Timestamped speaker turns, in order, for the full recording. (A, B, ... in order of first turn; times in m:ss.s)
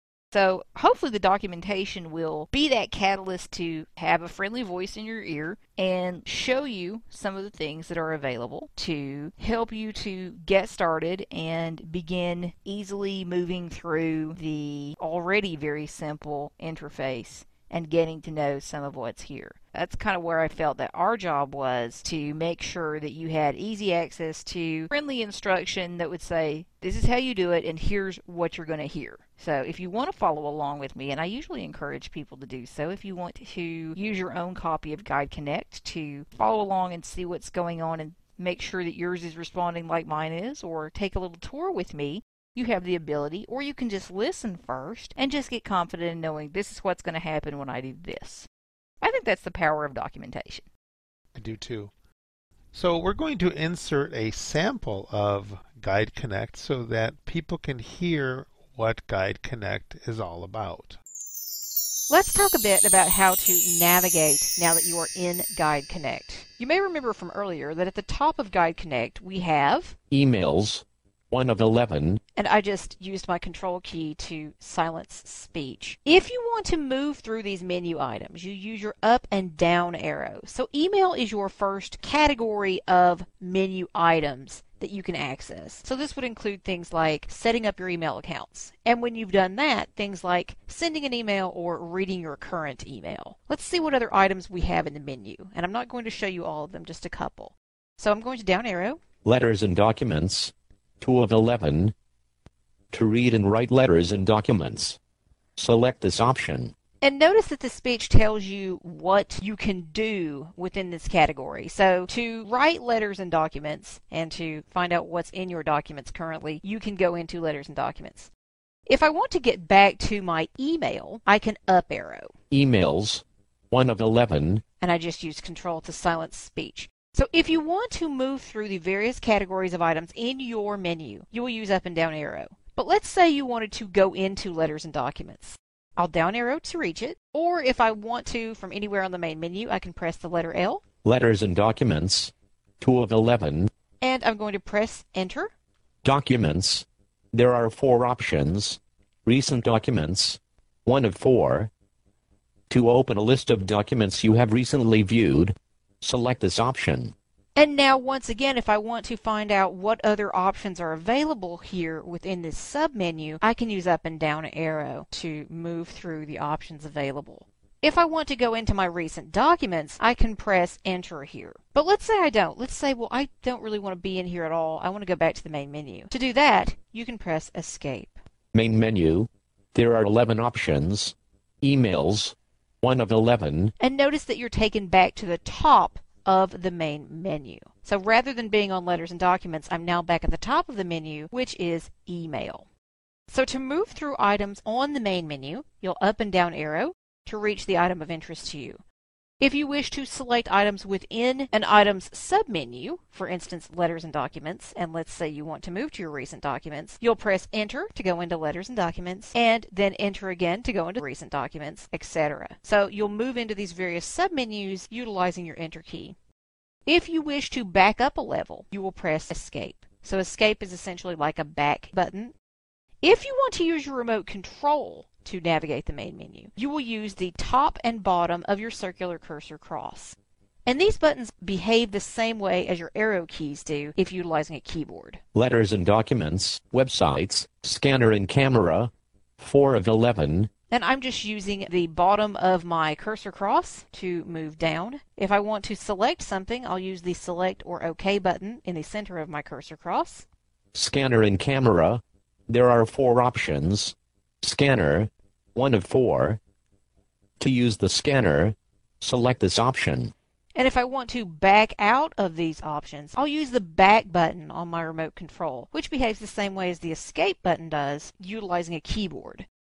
0:00.3-0:48.5 A
0:49.0-0:50.7 A
0:51.3-0:51.9 B
0:52.7-1:01.0 B
1:02.1-1:10.0 A
1:10.1-1:12.2 C
1:12.4-1:39.0 A
1:39.2-1:41.9 C
1:42.9-1:45.0 C
1:45.6-1:46.7 C
1:47.0-1:58.3 A
1:58.9-2:02.3 A
2:02.5-2:04.6 C
2:04.8-2:20.8 A
2:21.0-2:23.7 C
2:24.0-2:25.5 A
2:26.0-2:31.7 C
2:32.7-2:37.2 C
2:37.6-2:58.2 A
2:58.5-3:03.7 C
3:03.8-3:12.7 A
3:13.3-3:18.8 A
3:19.4-3:36.2 A
3:36.9-3:42.3 A
3:43.0-3:55.2 A
3:55.4-4:00.5 C
4:00.7-4:10.3 A
4:10.7-4:16.4 C
4:17.4-4:20.1 C
4:20.6-4:29.5 A